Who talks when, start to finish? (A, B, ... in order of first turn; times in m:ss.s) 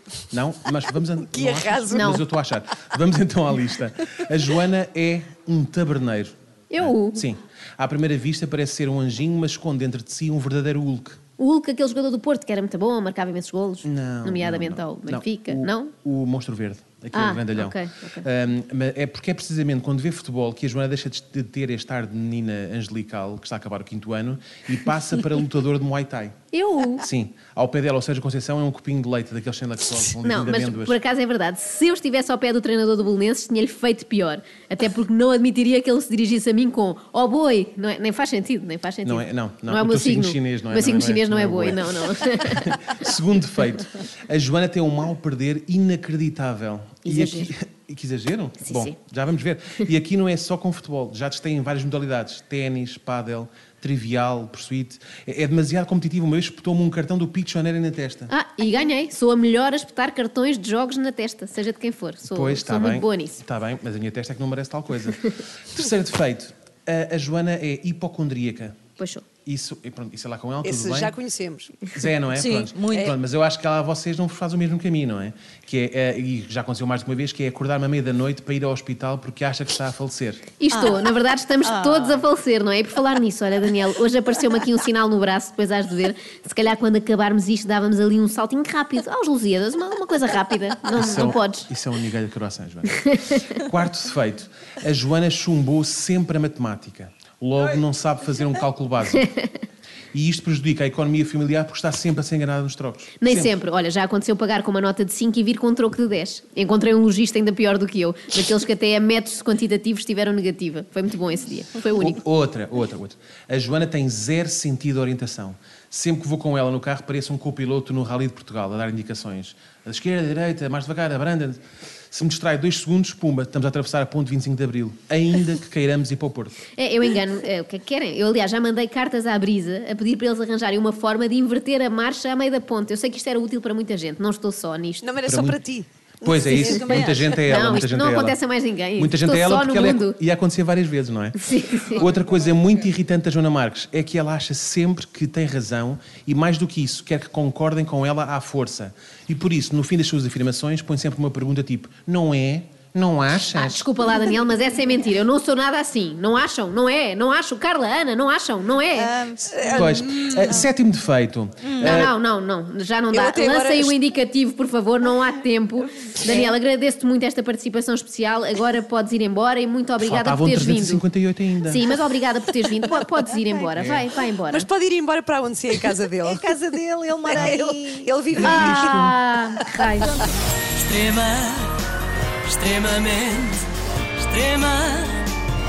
0:00.3-0:11.2 A
0:01.2-0:02.1 B
0:01.9-0:02.2 C
0:06.7-0:07.2 C
0:11.4-0:15.9 C
0:13.8-0:26.3 A
0:17.1-0:18.3 C
0:26.5-0:27.0 C
0:27.0-0:31.0 A
0:30.2-0:42.8 C
0:39.0-0:58.3 A
0:47.0-0:47.5 C
0:48.6-0:49.0 C
0:58.3-1:03.4 C
1:02.2-1:08.8 A
1:09.0-1:09.2 C
1:09.4-1:11.1 A
1:10.6-1:11.9 B
1:11.8-1:20.5 A
1:12.3-1:13.0 D
1:12.9-1:13.2 B
1:20.6-1:31.7 C
1:20.7-1:21.0 D
1:21.6-1:22.2 D
1:30.9-1:39.3 A
1:33.0-1:33.3 C
1:40.1-1:43.5 A
1:43.2-1:52.2 C
1:51.9-2:06.6 A
2:06.7-2:15.1 C
2:15.0-2:17.4 B
2:15.2-2:15.6 A
2:16.2-2:18.4 A
2:16.6-2:17.3 D
2:17.4-2:20.2 C
2:19.0-2:33.8 A
2:21.4-2:22.0 C
2:33.5-2:39.3 C
2:39.0-2:39.6 D
2:39.4-2:40.6 B
2:39.6-2:42.1 A
2:41.8-2:42.1 B
2:41.8-2:51.0 C
2:43.1-2:43.9 B
2:46.2-2:46.5 B
2:50.0-2:51.9 A
2:51.6-2:54.7 C
2:53.8-2:54.1 A
2:54.5-2:56.7 B
2:56.2-2:58.1 D
2:57.2-3:00.1 B
2:58.3-2:59.2 A
2:58.4-3:00.3 C
3:00.7-3:01.8 E
3:02.4-3:05.4 E